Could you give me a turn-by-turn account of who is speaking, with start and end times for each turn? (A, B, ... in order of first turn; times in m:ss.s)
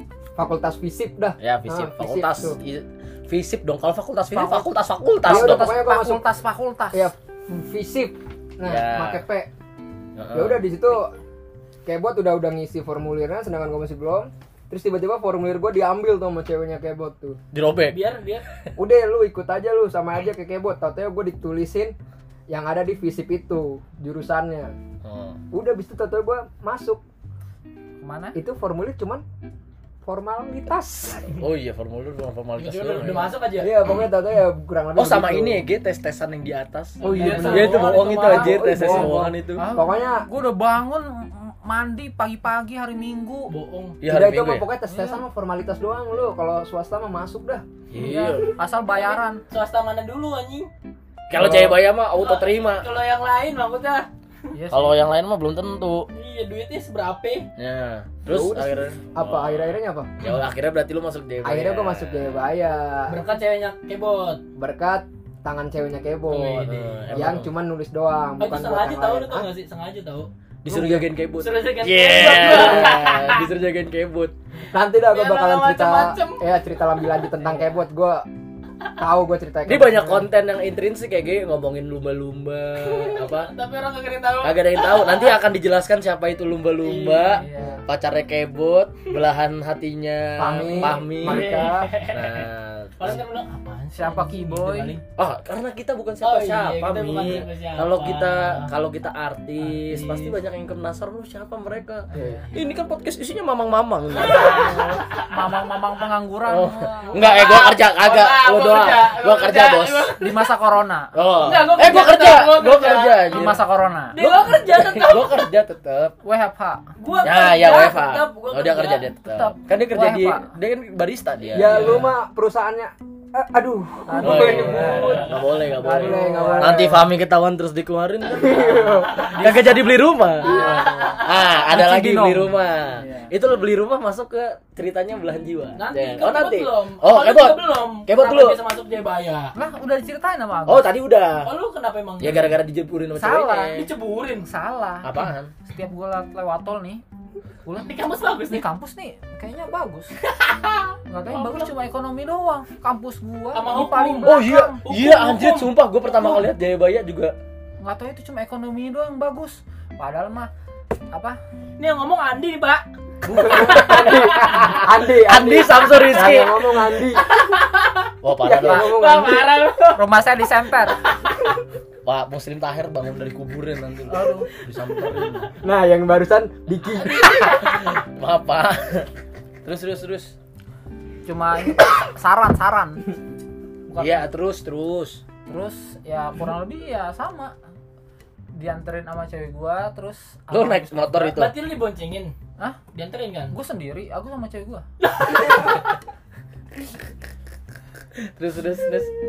0:00.4-0:02.6 A
0:01.4-0:05.8 B
0:04.3-0:04.7 C
0:05.2-0:07.1 C
0:05.2-0:06.2 A
0:06.9-0:09.5 A
0:08.6-0:09.2 B
0:10.2-0:10.6 B
0:10.3-0:11.1 A
0:11.8-0:17.4 A
0:17.5-0:18.0 B
0:17.9-0:18.4 D
0:18.8-0:21.9 A
0:22.5-0:24.7 A
0:25.0-0:25.4 B
0:25.5-0:27.0 A
0:28.0-0:28.4 C
0:28.3-0:29.2 A
0:30.0-0:31.4 A
0:31.4-0:33.4 B
0:32.6-0:33.8 D
0:33.5-0:35.6 A
0:35.0-0:39.7 B
0:37.0-0:39.0 D
0:37.0-0:40.3 A
0:37.1-0:37.8 C
0:38.8-0:43.5 C
0:43.5-0:44.0 D
0:44.0-0:44.7 B
0:44.0-0:47.6 A
0:44.9-0:45.2 C
0:47.9-0:48.5 B
0:47.9-0:49.4 C
0:49.5-0:50.7 D
0:51.3-0:52.9 B
0:51.3-0:51.8 A
0:52.1-0:54.1 D
0:54.5-0:55.1 C
0:54.7-0:56.1 B
0:56.1-0:57.5 D
0:57.6-1:02.5 B
0:58.2-1:00.1 A
1:01.4-1:03.2 A
1:03.1-1:04.4 D
1:04.6-1:09.5 A
1:06.3-1:07.3 D
1:06.6-1:07.5 B
1:08.4-1:10.3 D
1:10.6-1:14.3 B
1:10.6-1:11.1 A
1:11.4-1:13.5 D
1:12.3-1:13.0 A
1:14.7-1:18.3 A
1:15.0-1:16.6 D
1:17.4-1:17.7 C
1:19.0-1:20.3 A
1:19.6-1:23.5 B
1:22.8-1:25.4 D
1:24.4-1:33.2 B
1:26.8-1:27.5 D
1:27.4-1:27.8 C
1:30.4-1:31.9 A
1:30.7-1:35.0 D
1:34.0-1:35.0 C
1:35.2-1:44.8 B
1:36.2-1:38.7 D
1:39.6-1:40.3 D
1:42.1-1:42.5 C
1:42.2-1:42.4 A
1:44.2-1:47.2 C
1:44.4-1:44.9 D
1:46.4-1:50.1 B
1:47.1-1:50.4 D
1:50.2-1:51.1 C
1:51.1-1:53.6 B
1:51.4-1:53.6 D
1:53.3-1:54.2 C
1:54.1-1:55.5 D
1:54.2-1:56.2 B
1:56.2-1:56.8 C
1:57.0-1:59.1 D
1:57.2-2:02.1 B
1:59.2-2:00.5 C
2:01.5-2:07.0 A
2:01.6-2:02.1 D
2:04.1-2:07.1 C
2:04.2-2:18.6 B
2:08.3-2:09.4 A
2:09.3-2:09.7 C
2:10.4-2:11.5 D
2:10.7-2:10.9 A
2:11.7-2:13.3 C
2:15.8-2:19.5 D
2:19.5-2:20.9 C
2:20.7-2:21.5 B
2:21.4-2:22.6 D
2:22.2-2:23.9 B
2:23.1-2:23.8 C
2:23.7-2:24.5 D
2:24.4-2:27.0 C
2:25.0-2:25.5 B
2:27.6-2:27.9 C
2:27.7-2:28.6 D
2:28.5-2:30.1 C
2:30.2-2:31.7 D
2:31.1-2:34.8 C
2:33.5-2:35.7 D
2:34.2-2:37.3 B
2:36.2-2:36.4 C
2:37.8-2:40.5 C
2:41.1-2:41.4 C
2:41.8-2:42.8 D
2:43.2-2:47.4 A
2:43.2-2:46.7 B
2:43.4-2:44.2 D
2:47.2-2:48.1 D
2:48.2-2:49.0 B
2:48.4-2:49.6 A
2:48.6-2:50.0 D
2:49.9-2:51.0 C
2:52.0-2:55.5 B
2:54.1-2:54.5 C
2:55.2-2:55.4 D
2:55.6-2:57.6 A
2:56.9-2:58.0 D
2:57.5-2:59.1 B
2:59.6-3:00.3 B
3:01.2-3:03.1 C
3:03.9-3:04.3 C
3:04.0-3:05.2 B
3:05.4-3:07.5 C
3:08.5-3:11.3 C
3:10.5-3:11.5 B
3:11.2-3:12.3 D
3:12.9-3:13.6 D
3:13.5-3:14.8 C
3:15.0-3:15.8 D
3:18.2-3:19.1 B